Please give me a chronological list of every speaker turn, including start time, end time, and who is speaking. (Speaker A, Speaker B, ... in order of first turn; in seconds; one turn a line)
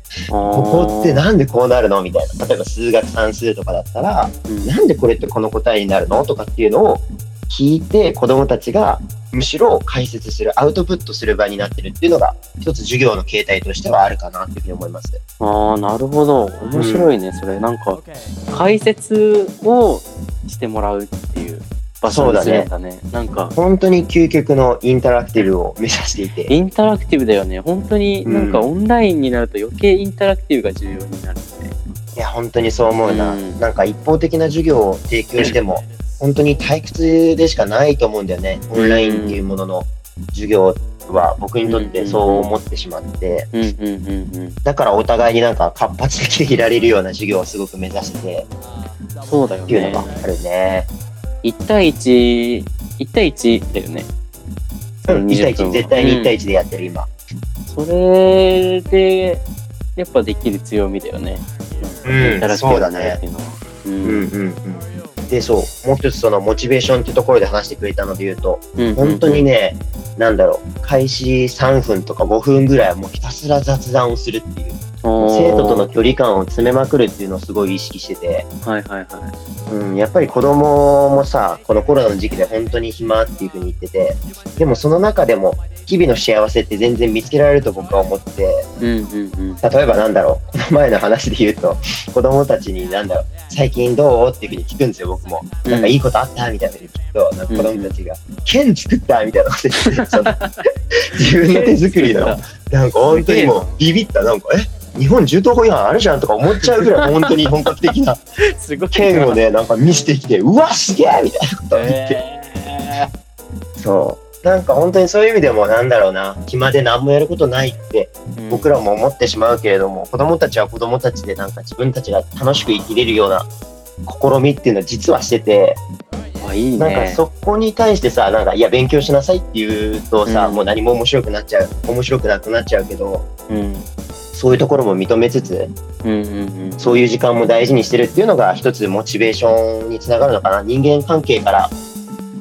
Speaker A: 0.3-1.2
Speaker B: 0.5-15.2
Speaker A: 4.5-4.7
Speaker A: 15.4-23.6
Speaker B: 16.7-17.1
Speaker B: 22.1-22.7
Speaker B: 23.6-26.5
Speaker A: 26.5-32.2
Speaker B: 28.3-28.7
Speaker B: 32.2-43.5
Speaker A: 33.1-33.6
Speaker A: 38.8-39.4
Speaker A: 41.6-42.5
Speaker A: 43.5-44.6
Speaker B: 44.6-48.5
Speaker A: 49.2-50.2
Speaker B: 49.7-50.9
Speaker A: 51.4-54.1
Speaker A: 55.0-56.3
Speaker B: 55.1-57.1
Speaker A: 57.7-59.5
Speaker A: 60.0-64.3
Speaker B: 62.0-63.2
Speaker B: 64.0-78.5
Speaker A: 68.8-69.5
Speaker A: 75.0-75.9
Speaker A: 78.6-79.3
Speaker B: 79.7-88.7
Speaker A: 88.8-89.6
Speaker B: 89.6-100.4
Speaker A: 95.7-95.9
Speaker A: 97.5-97.9
Speaker A: 99.9-100.6
Speaker B: 101.1-108.2
Speaker A: 101.2-102.4
Speaker A: 103.1-103.7
Speaker A: 106.6-107.3
Speaker A: 108.4-109.4
Speaker B: 108.9-112.2
Speaker A: 111.7-113.1
Speaker B: 113.8-123.5
Speaker A: 118.3-118.7
Speaker B: 124.1-125.8
Speaker A: 126.4-127.2
Speaker B: 126.8-133.3
Speaker A: 130.3-130.6
Speaker A: 133.5-133.9
Speaker B: 134.3-135.7
Speaker A: 136.0-137.1
Speaker B: 136.8-141.7